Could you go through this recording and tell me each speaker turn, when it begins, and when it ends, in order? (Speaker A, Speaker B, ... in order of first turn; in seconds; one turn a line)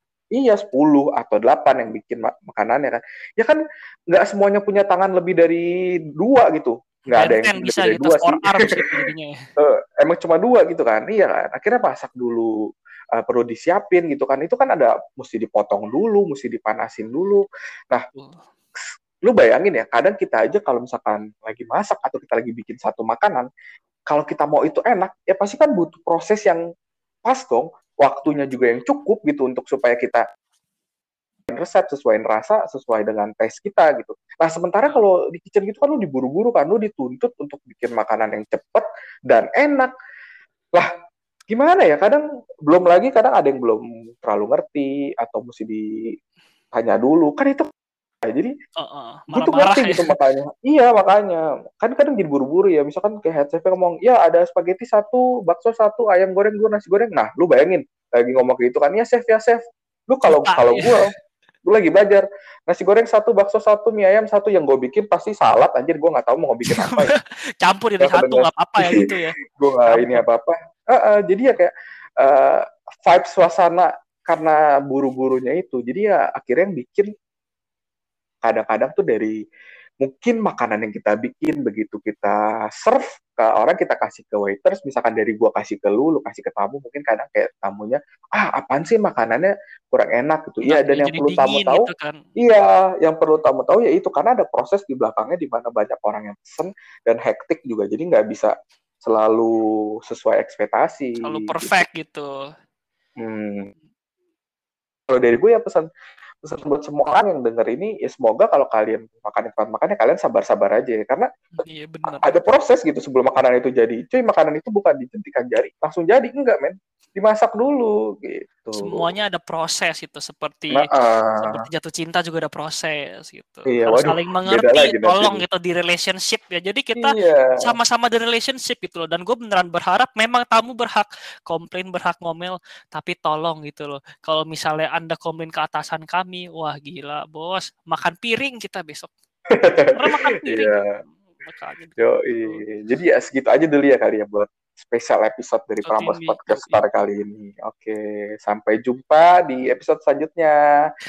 Speaker A: 0.3-8.8
Speaker B: 7.1-9.4
Speaker A: 9.6-12.5
Speaker A: 13.1-18.0
Speaker B: 18.1-18.4
Speaker A: 19.2-23.5
Speaker A: 24.1-26.6
Speaker A: 27.2-30.2
Speaker A: 31.5-39.9
Speaker A: 41.5-45.8
Speaker A: 46.7-47.7
Speaker A: 48.2-48.5
Speaker B: 48.8-50.1
Speaker A: 49.3-61.1
Speaker B: 60.3-61.1
Speaker A: 61.7-67.1
Speaker B: 66.7-69.3
Speaker A: 68.0-77.1
Speaker B: 69.9-70.2
Speaker A: 78.4-79.3
Speaker A: 80.0-91.9
Speaker B: 90.6-92.2
Speaker A: 92.4-98.5
Speaker A: 99.0-99.5
Speaker A: 100.1-101.8
Speaker B: 101.2-102.3
Speaker A: 103.2-103.7
Speaker A: 105.1-105.9
Speaker A: 106.4-111.3
Speaker B: 111.5-112.2
Speaker A: 112.1-119.1
Speaker B: 118.8-120.9
Speaker A: 120.7-121.6
Speaker B: 121.4-139.1
Speaker A: 123.7-125.4
Speaker A: 127.0-127.7
Speaker A: 139.5-139.9
Speaker B: 139.9-142.7
Speaker A: 140.4-140.9
Speaker A: 142.0-150.6
Speaker B: 145.8-146.9